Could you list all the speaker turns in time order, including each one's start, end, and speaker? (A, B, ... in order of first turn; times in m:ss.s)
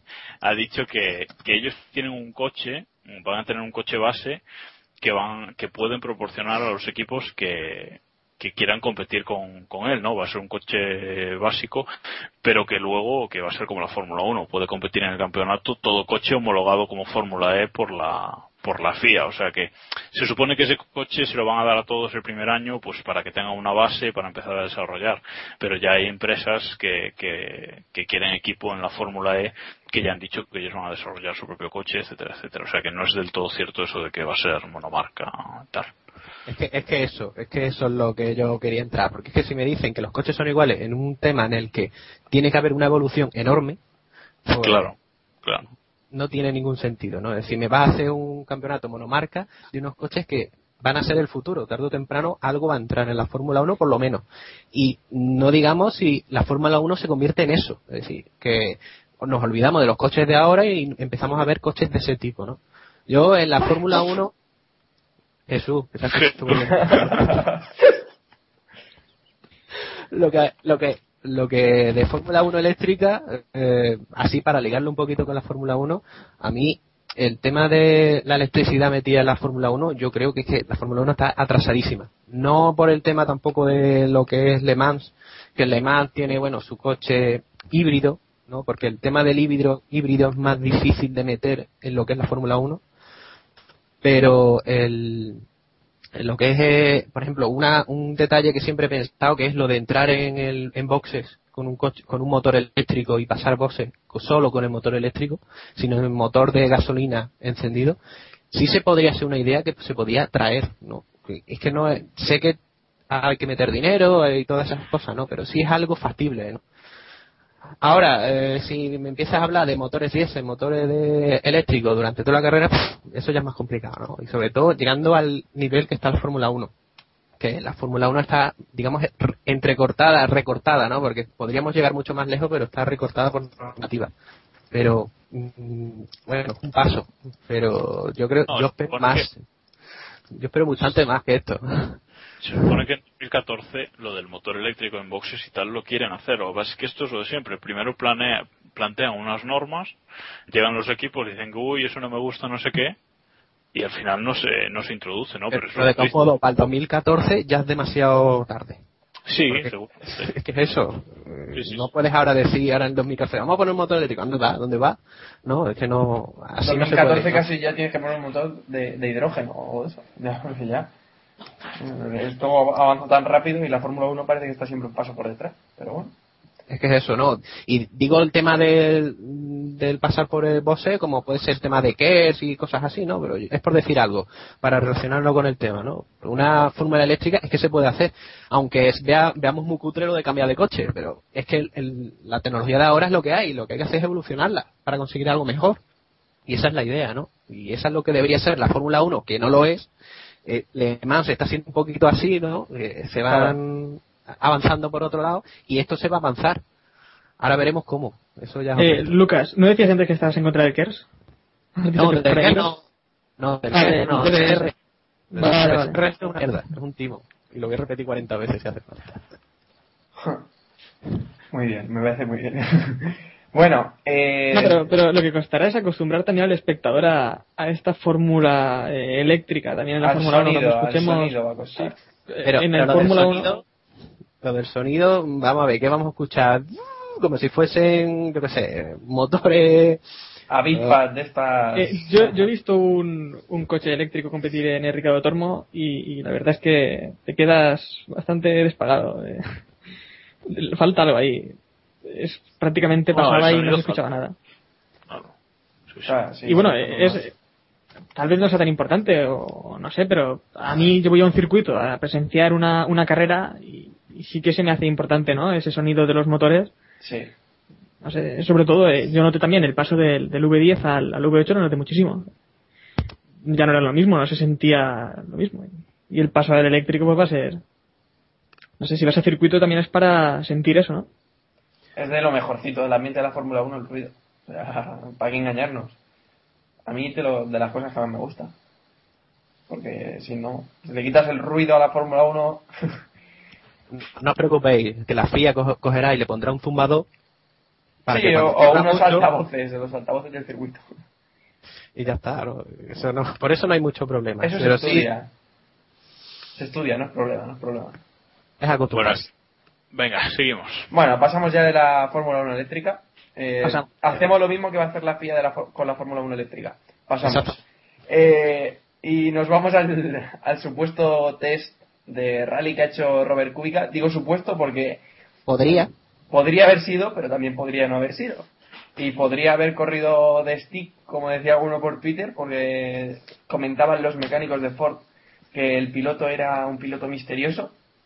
0:00.4-0:04.4 A
0:05.0-0:11.8 A
0:12.4-0:35.9 A
0:36.5-0:43.8 B
0:44.5-0:44.9 B
0:44.6-0:45.7 A
0:46.1-1:04.3 B
1:05.5-1:07.3 B
1:06.1-1:07.2 A
1:06.8-1:07.6 C
1:10.1-1:32.8 B
1:34.0-1:35.4 B
1:36.2-1:48.0 B
1:48.5-1:52.6 B
1:53.1-1:56.6 B
1:57.8-2:06.7 B
2:07.4-2:14.1 B
2:14.7-2:19.4 B
2:18.5-2:19.3 A
2:20.3-2:22.0 B
2:22.4-2:30.0 A
2:30.5-2:33.0 A
2:33.7-2:36.3 A
2:35.5-2:38.8 B
2:39.3-2:40.4 A
2:39.5-2:47.5 B
2:41.5-2:41.9 A
2:46.6-2:50.9 C
2:51.8-2:56.1 C
2:56.7-3:15.8 B
3:16.5-3:19.9 B
3:20.4-3:26.6 B
3:27.4-3:29.1 B
3:28.8-3:31.1 D
3:31.8-3:32.7 D
3:31.9-3:32.8 B
3:33.4-3:34.7 B
3:33.7-3:34.7 D
3:35.3-3:36.0 D
3:35.3-3:39.3 B
3:40.2-3:40.4 C
3:41.5-3:44.9 C
3:44.5-3:53.6 D
3:50.0-3:52.0 C
3:52.4-3:53.6 B
3:54.4-4:00.0 B
4:00.5-4:02.4 C
4:00.7-4:01.0 B
4:01.8-4:09.6 D
4:10.5-4:14.4 D
4:13.1-4:14.2 A
4:15.9-4:16.2 A
4:16.1-4:17.2 C
4:16.5-4:17.3 D
4:18.2-4:26.7 D
4:27.0-4:27.3 C
4:28.0-4:32.3 D
4:33.4-4:37.6 D
4:38.8-4:41.1 D
4:42.0-4:46.0 C
4:46.9-4:48.5 C
4:49.7-4:52.7 C
4:53.9-4:57.1 B
4:58.0-4:59.3 B
4:58.1-5:00.9 C
5:02.0-5:05.1 B
5:04.4-5:05.3 C
5:06.6-5:08.0 C
5:08.6-5:09.3 B
5:08.9-5:09.3 A
5:09.9-5:10.9 A
5:10.9-5:25.0 C
5:13.6-5:13.9 D
5:17.2-5:17.6 B
5:25.5-5:25.9 B
5:25.7-5:37.8 C